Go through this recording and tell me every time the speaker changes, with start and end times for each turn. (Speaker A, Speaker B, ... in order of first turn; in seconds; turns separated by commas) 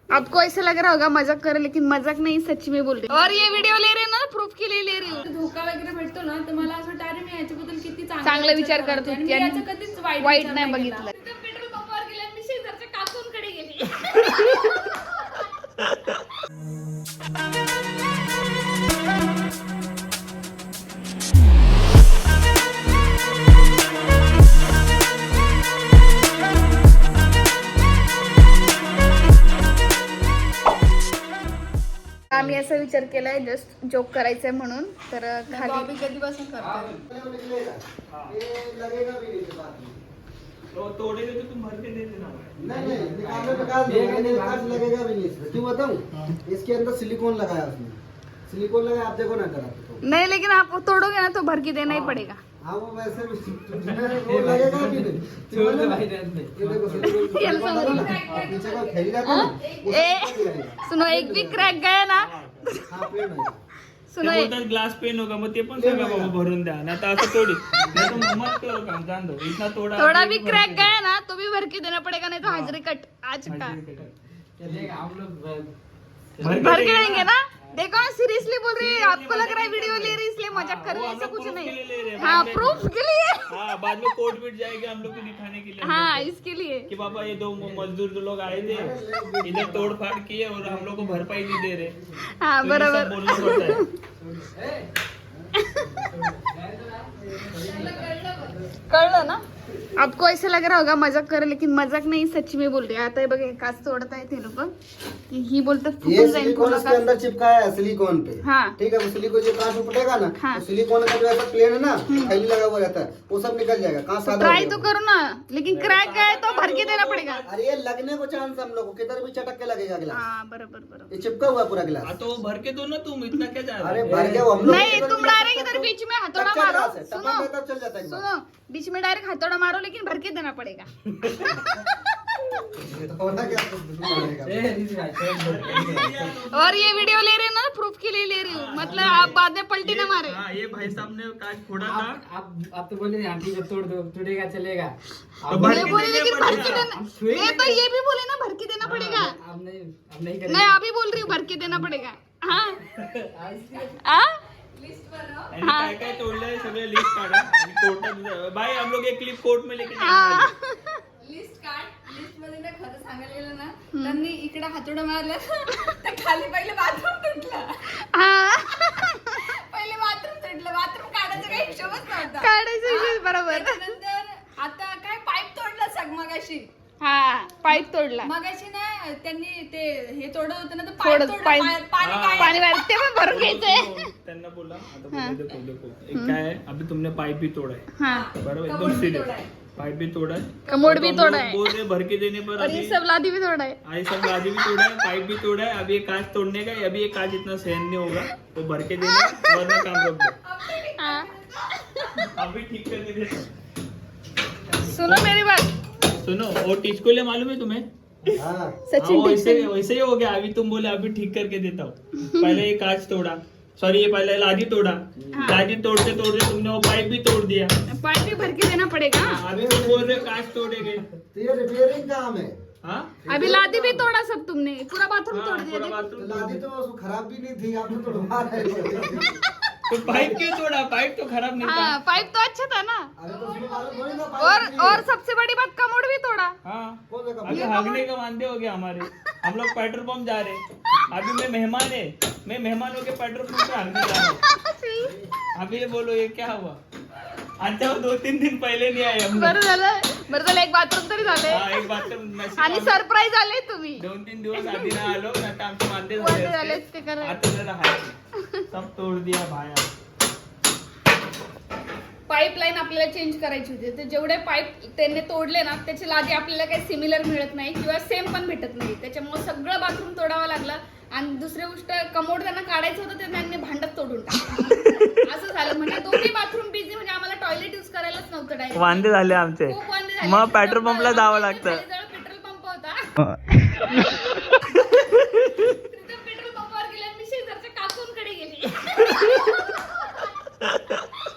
Speaker A: 0.1-5.2, Speaker B: 3.1-3.7, Speaker B: 5.1-11.1, Speaker A: 8.2-9.7, Speaker A: 10.2-15.4, Speaker A: 32.3-35.9, Speaker C: 32.4-32.6, Speaker B: 35.5-36.9, Speaker C: 36.6-37.0, Speaker D: 37.1-40.0, Speaker E: 38.1-38.4, Speaker E: 40.7-42.6, Speaker D: 42.6-48.0, Speaker C: 42.6-44.9, Speaker D: 48.5-50.0, Speaker A: 50.0-52.4, Speaker C: 51.9-52.2, Speaker D: 52.6-56.0, Speaker C: 53.9-58.4, Speaker D: 56.5-61.8, Speaker A: 57.2-58.2, Speaker B: 57.8-60.1, Speaker A: 59.2-62.9, Speaker E: 62.2-62.7, Speaker D: 62.9-63.6, Speaker A: 64.1-64.5, Speaker E: 64.2-70.9, Speaker D: 65.8-66.3, Speaker D: 68.0-68.2, Speaker A: 70.0-73.8, Speaker E: 72.4-72.7, Speaker E: 73.5-74.1, Speaker C: 74.6-75.7, Speaker C: 76.4-76.9, Speaker E: 76.4-77.3, Speaker A: 76.6-83.6, Speaker E: 78.8-82.8, Speaker E: 83.5-86.3, Speaker A: 85.8-86.9, Speaker E: 86.9-92.0, Speaker C: 87.1-87.8, Speaker D: 88.5-90.0, Speaker C: 90.6-90.9, Speaker A: 92.2-93.9, Speaker E: 92.6-93.8, Speaker C: 94.2-94.9, Speaker A: 95.6-95.9, Speaker C: 95.9-98.2, Speaker B: 97.6-98.6, Speaker A: 98.9-99.4, Speaker A: 100.0-104.7, Speaker A: 105.3-107.1, Speaker D: 106.0-114.9, Speaker A: 108.4-108.8, Speaker A: 112.1-112.4, Speaker A: 114.2-117.4, Speaker E: 115.7-117.5, Speaker D: 117.5-120.2, Speaker A: 120.1-121.1, Speaker D: 121.1-122.1, Speaker E: 122.0-124.5, Speaker D: 123.8-128.3, Speaker C: 124.0-124.9, Speaker A: 124.6-127.5, Speaker A: 128.1-131.8, Speaker D: 132.9-134.8, Speaker C: 134.0-136.4, Speaker E: 135.4-137.2, Speaker A: 136.5-140.4, Speaker E: 138.5-142.2, Speaker D: 138.8-139.3, Speaker C: 141.8-147.8, Speaker E: 145.5-146.9, Speaker A: 145.5-149.4, Speaker E: 148.8-149.3, Speaker C: 149.1-151.9, Speaker A: 150.5-152.8, Speaker C: 153.3-154.0, Speaker A: 154.0-154.4, Speaker B: 154.8-155.5, Speaker E: 155.5-160.5, Speaker A: 155.6-157.1, Speaker A: 160.0-161.0, Speaker B: 161.2-167.9, Speaker A: 163.9-164.2, Speaker A: 168.0-169.4, Speaker B: 169.4-176.7, Speaker A: 172.3-173.9, Speaker A: 177.0-178.3, Speaker B: 178.2-182.6, Speaker A: 181.0-181.8, Speaker E: 182.0-182.6, Speaker A: 182.4-184.0, Speaker E: 183.3-187.9, Speaker A: 185.1-185.4, Speaker A: 186.1-186.4, Speaker A: 187.9-189.0, Speaker B: 188.1-189.5, Speaker E: 188.4-193.0, Speaker B: 190.7-191.0, Speaker A: 190.7-191.7, Speaker A: 192.6-193.8, Speaker E: 193.9-200.4, Speaker A: 199.1-199.6, Speaker B: 200.4-201.7, Speaker A: 200.7-202.3, Speaker E: 202.3-203.5, Speaker A: 204.9-205.7, Speaker E: 206.2-207.8, Speaker D: 208.3-208.8, Speaker A: 208.9-209.7, Speaker E: 209.0-217.7, Speaker A: 212.2-212.6, Speaker A: 215.3-215.6, Speaker A: 217.9-219.4, Speaker E: 219.2-221.1, Speaker D: 219.4-220.3, Speaker D: 221.3-222.6, Speaker E: 222.8-223.2, Speaker D: 223.2-224.1, Speaker A: 223.3-226.1, Speaker E: 225.3-226.6, Speaker D: 226.2-229.4, Speaker A: 229.2-230.4, Speaker E: 229.9-232.0, Speaker D: 230.0-230.4, Speaker A: 231.6-233.1, Speaker D: 233.2-235.1, Speaker B: 233.3-234.7, Speaker A: 234.4-236.6, Speaker E: 236.7-244.4, Speaker D: 237.1-237.8, Speaker A: 237.5-238.0, Speaker A: 244.4-245.1, Speaker D: 245.0-245.3, Speaker E: 245.6-246.8, Speaker E: 247.6-249.6, Speaker A: 249.3-252.0, Speaker E: 251.5-253.0, Speaker A: 252.6-254.1, Speaker E: 254.0-258.2, Speaker A: 254.6-255.1, Speaker A: 256.2-257.4, Speaker E: 258.7-259.9, Speaker A: 262.3-279.1, Speaker E: 278.8-281.8, Speaker A: 279.6-283.0, Speaker A: 285.7-290.3, Speaker E: 290.6-291.1